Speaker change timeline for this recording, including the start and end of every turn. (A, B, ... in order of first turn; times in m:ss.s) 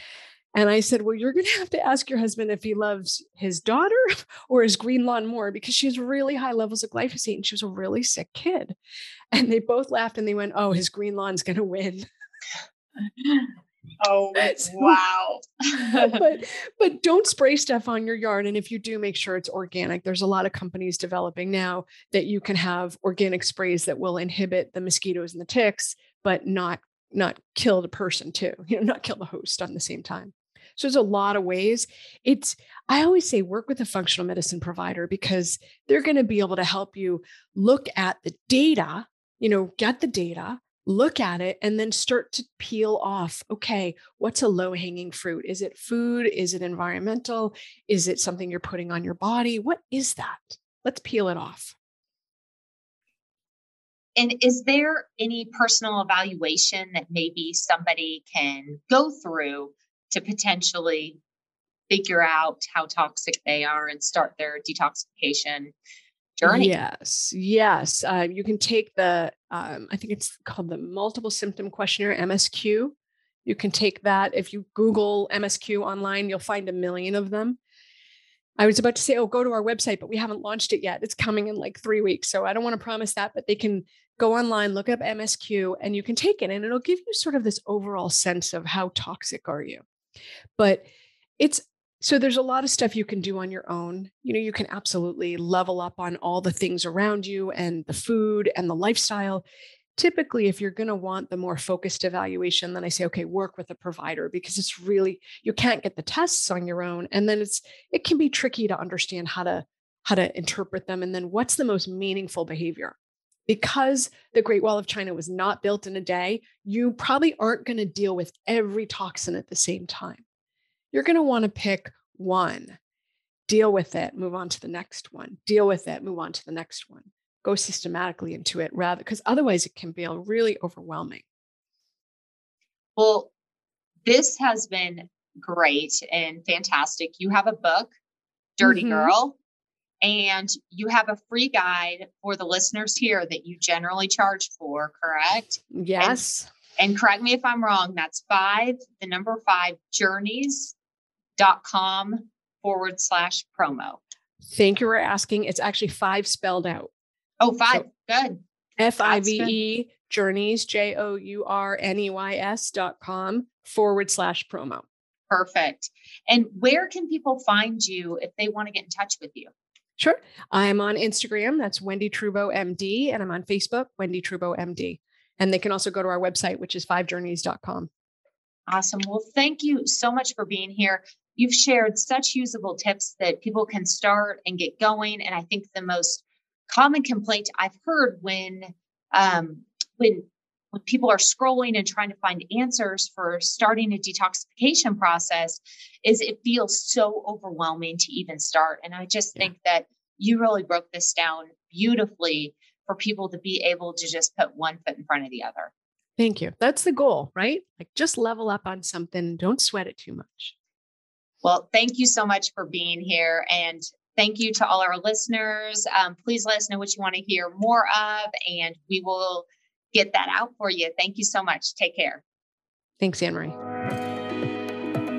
0:00.6-0:08.8 A
0:09.3-0:12.1 A
0:14.0-0:16.2 B
0:14.4-0:15.0 A
0:15.8-0:51.8 A
0:54.2-1:01.2 B
1:01.9-1:05.7 B
1:06.4-1:06.7 B
1:06.4-1:17.6 A
1:18.6-1:29.8 A
1:30.6-1:30.9 A
1:31.4-1:39.4 A
1:40.0-1:53.0 A
1:53.5-2:00.2 A
2:00.9-2:02.8 A
2:03.5-2:11.2 A
2:13.0-2:13.3 B
2:14.0-2:17.9 B
2:18.6-2:19.4 B
2:18.6-2:19.1 A
2:20.0-2:26.2 B
2:25.7-2:26.5 A
2:26.8-2:30.8 B
2:31.4-2:34.0 B
2:34.5-2:36.9 A
2:37.4-2:38.4 B
2:38.8-2:44.8 A
2:39.0-2:39.5 B
2:45.3-2:49.5 B
2:50.0-2:57.9 A
2:58.7-3:25.7 B
3:26.2-3:30.6 A
3:31.4-3:42.2 B
3:43.0-3:43.6 A